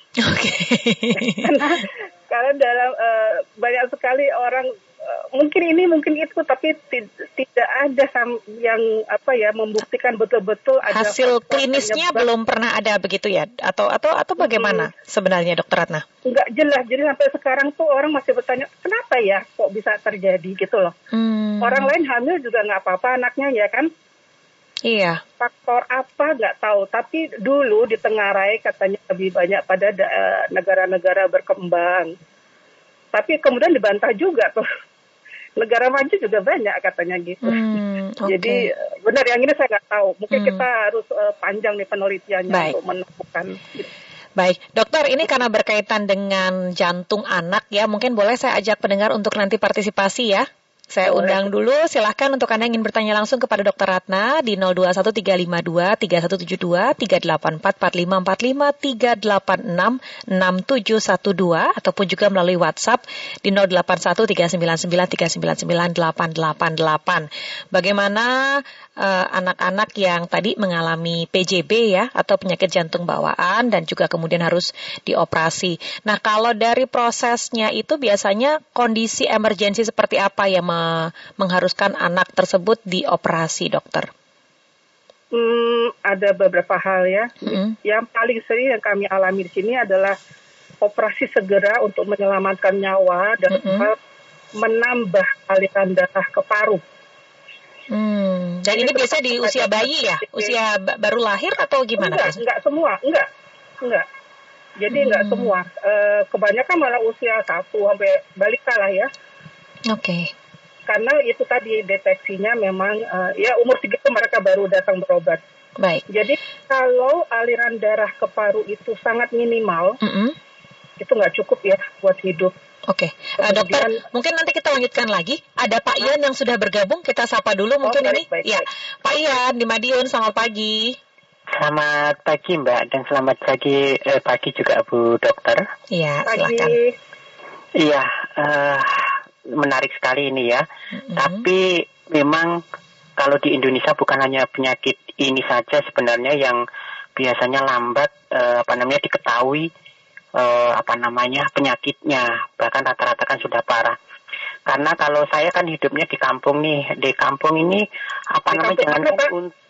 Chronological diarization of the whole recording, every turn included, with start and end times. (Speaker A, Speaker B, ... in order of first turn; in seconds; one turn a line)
Speaker A: 0.2-1.5
Speaker B: 1.3-12.3
Speaker A: 10.9-16.0
Speaker B: 14.4-14.9
Speaker B: 16.2-20.9
Speaker A: 21.1-21.9
Speaker B: 21.6-23.9
Speaker A: 24.9-25.2
Speaker B: 25.4-32.1
Speaker B: 33.1-34.6
Speaker B: 35.6-37.6
Speaker A: 37.4-38.7
Speaker B: 38.2-43.9
Speaker A: 40.3-40.6
Speaker A: 42.5-42.7
Speaker A: 44.4-84.1
Speaker B: 51.0-51.5
Speaker B: 85.3-90.2
Speaker A: 87.4-87.7
Speaker B: 90.8-94.0
Speaker A: 93.5-93.9
Speaker B: 94.6-96.8
Speaker A: 97.9-102.4
Speaker B: 98.7-100.5
Speaker B: 102.0-103.3
Speaker B: 103.8-104.0
Speaker B: 104.8-109.1
Speaker A: 104.9-105.5
Speaker A: 109.9-110.3
Speaker B: 110.9-115.4
Speaker A: 115.8-116.0
Speaker B: 116.1-120.0
Speaker A: 120.0-120.3
Speaker B: 121.0-122.5
Speaker A: 122.9-131.0
Speaker B: 123.4-124.0
Speaker B: 127.8-128.7
Speaker C: 131.6-135.6
Speaker A: 135.9-136.8
Speaker B: 136.2-136.9
Speaker C: 137.8-140.6
Speaker A: 140.9-141.4
Speaker C: 141.1-142.6
Speaker C: 143.2-146.6
Speaker C: 147.2-149.7
Speaker C: 150.4-153.9
Speaker C: 154.7-159.5
Speaker B: 158.5-159.3